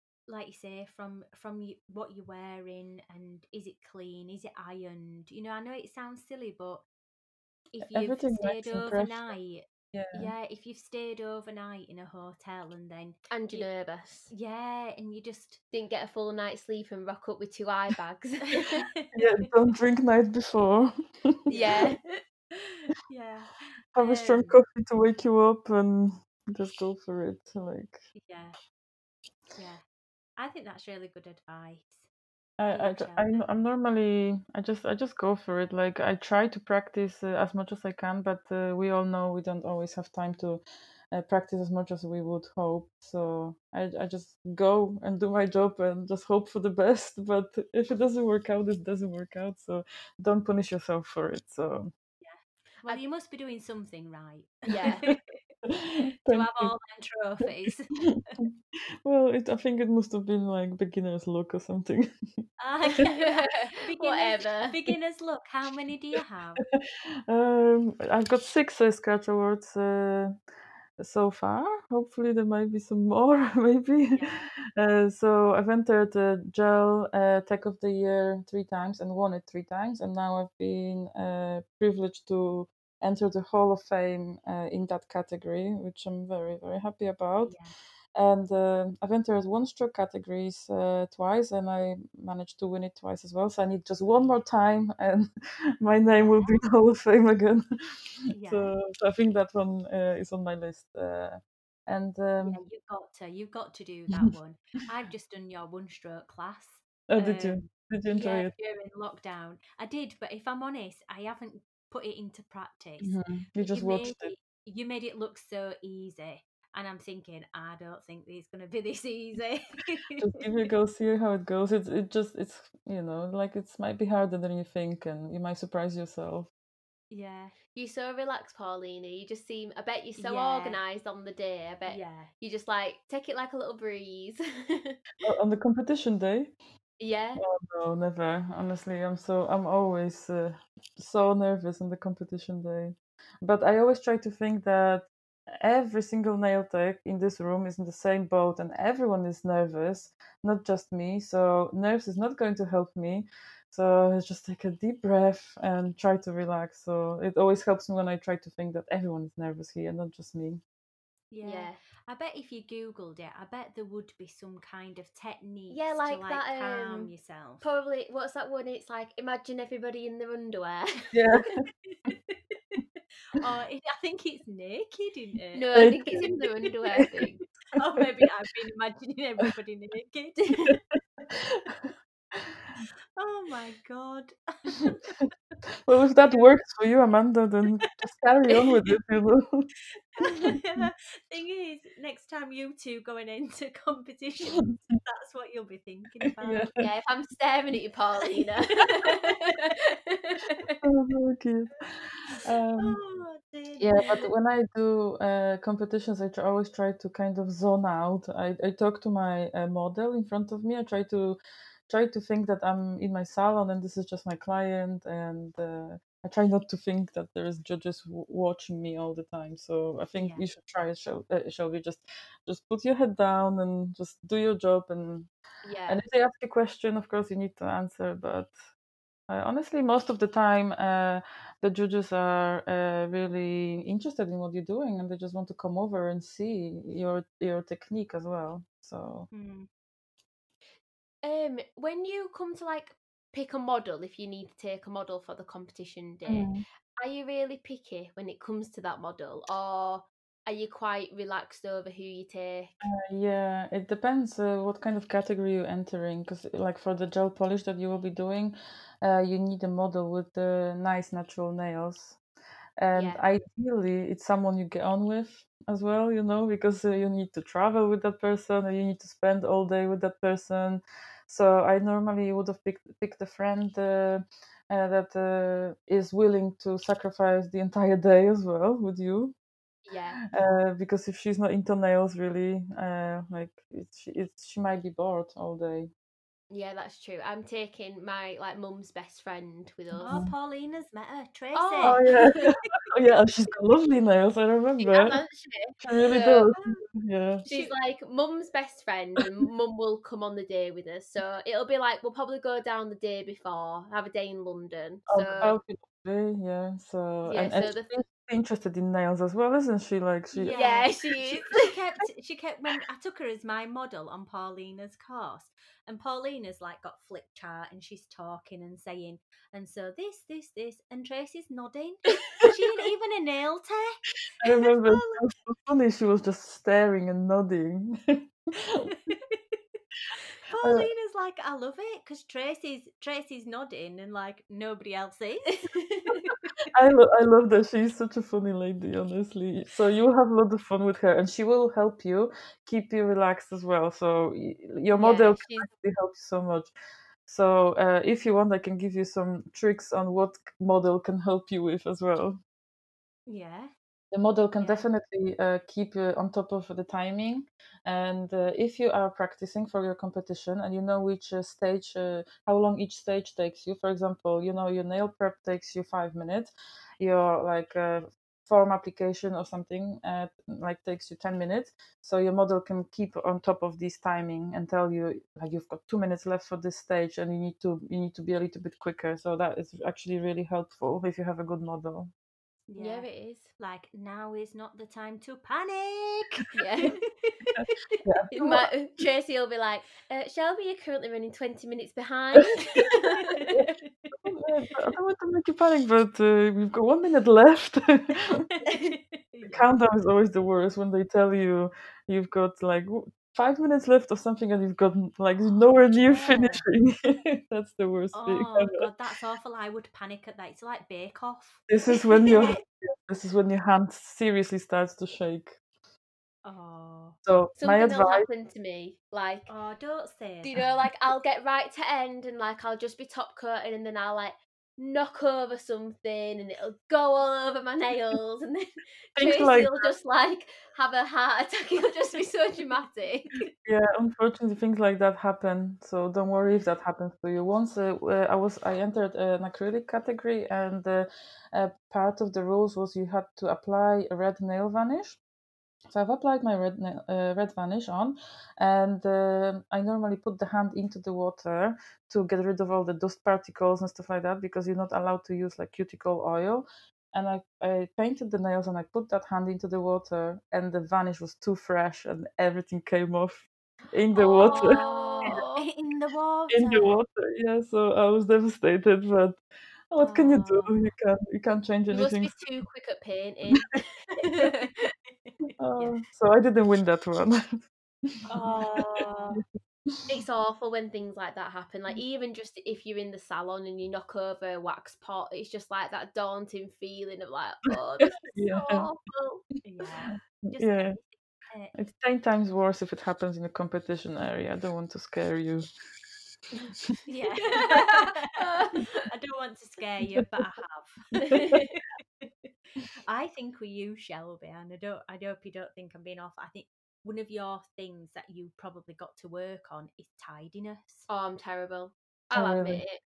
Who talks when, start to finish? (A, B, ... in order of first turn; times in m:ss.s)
0:00.3-0:06.8 A
0:07.7-0:13.7 A
0:07.8-0:09.3 B
0:09.9-0:10.3 B
0:13.3-0:14.3 C
0:14.3-0:15.6 A
0:15.7-0:18.8 C
0:18.8-0:19.1 A
0:19.1-0:20.9 B
0:21.5-0:22.0 C
0:21.5-0:22.0 A
0:22.5-0:24.6 A
0:24.0-0:28.1 B
0:28.2-0:28.6 A
0:29.6-0:29.8 A
0:30.4-0:32.1 A
0:32.6-0:51.9 B
0:32.7-0:33.5 A
0:52.2-0:55.2 A
0:54.7-0:55.0 C
0:55.7-0:56.7 B
0:56.2-0:58.4 A
0:58.0-0:58.5 B
0:59.0-1:02.1 B
1:02.6-1:06.6 A
1:03.0-1:04.8 C
1:06.6-1:10.4 B
1:11.0-1:27.6 B
1:14.1-1:14.5 A
1:27.4-1:27.7 A
1:28.2-1:35.3 B
1:35.8-1:42.6 B
1:36.2-1:36.6 A
1:38.3-1:38.8 A
1:42.4-1:47.6 A
1:47.1-1:48.5 B
1:48.2-2:00.3 A
1:53.0-1:54.3 B
2:00.2-2:06.5 B
2:07.1-2:07.6 A
2:07.7-2:15.0 C
2:10.2-2:10.8 A
2:11.9-2:12.3 A
2:15.2-2:16.5 B
2:17.0-2:17.4 C
2:17.4-2:40.6 B
2:41.3-2:47.6 A
2:41.4-2:41.8 C
2:45.7-2:51.1 C
2:51.1-2:51.6 B
2:51.9-2:56.4 A
2:55.5-2:57.4 C
2:55.7-2:56.3 B
2:57.7-3:00.8 A
3:01.3-3:02.4 B
3:03.2-3:05.3 A
3:05.9-3:09.7 B
3:10.2-3:16.8 A
3:16.4-3:16.9 B
3:16.8-3:20.7 C
3:20.8-3:23.0 B
3:22.8-3:24.3 A
3:23.8-3:31.4 B
3:31.9-3:45.3 B
3:40.2-3:40.4 A
3:45.6-3:46.0 C
3:45.9-3:48.6 B
3:49.3-3:59.3 B
3:59.3-3:59.7 A
4:01.2-4:12.8 C
4:06.3-4:06.6 B
4:12.8-4:22.2 B
4:22.8-4:39.4 B
4:22.9-4:23.2 C
4:39.9-4:40.2 C
4:40.2-4:45.9 B
4:46.5-4:50.2 C
4:50.0-4:52.0 A
4:51.5-4:52.6 C
4:51.8-4:55.2 B
4:54.8-4:56.5 C
4:55.8-4:57.4 B
4:56.6-4:56.8 A
4:57.4-4:57.7 A
4:57.5-5:05.6 C
5:05.1-5:10.6 B
5:07.2-5:07.9 C
5:10.3-5:25.3 A
5:10.6-5:11.7 C
5:24.4-5:29.2 B
5:29.1-5:29.6 A
5:30.5-5:36.3 A
5:30.6-5:30.9 B
5:36.7-5:46.7 B
5:45.0-5:45.7 C
5:47.3-5:52.4 B
5:53.3-5:53.7 A
5:54.1-6:22.1 B
6:22.7-6:23.1 A
6:22.8-6:23.5 C
6:23.6-6:27.7 A
6:26.5-6:27.0 C
6:28.0-6:28.7 B
6:28.4-6:33.4 C
6:33.3-6:34.2 A
6:34.2-6:38.5 B
6:38.6-6:39.7 A
6:39.5-6:48.9 B
6:46.1-6:46.6 A
6:48.1-6:51.7 A
6:51.7-6:55.6 B
6:52.2-6:52.6 A
6:56.4-6:57.2 A
6:57.2-6:58.3 B
6:57.6-6:59.5 C
6:59.5-7:00.6 A
7:00.4-7:13.5 C
7:09.2-7:09.9 B
7:13.7-7:25.2 B
7:25.9-7:45.4 B
7:44.1-7:45.6 C
7:44.4-7:47.0 A
7:46.5-7:49.4 B
7:49.9-7:52.3 B
7:50.0-7:50.8 A
7:51.9-7:54.7 C
7:55.3-7:56.0 A
7:55.6-7:58.2 B
7:58.3-7:59.4 C
7:58.4-7:59.4 A
8:00.1-8:09.4 C
8:08.3-8:08.9 B
8:09.6-8:11.8 A
8:10.0-8:11.0 B
8:11.8-8:15.7 B
8:17.1-8:18.3 A
8:17.5-8:19.1 C
8:19.0-8:31.1 A
8:21.2-8:21.7 C
8:31.1-8:33.0 C
8:32.3-8:32.8 B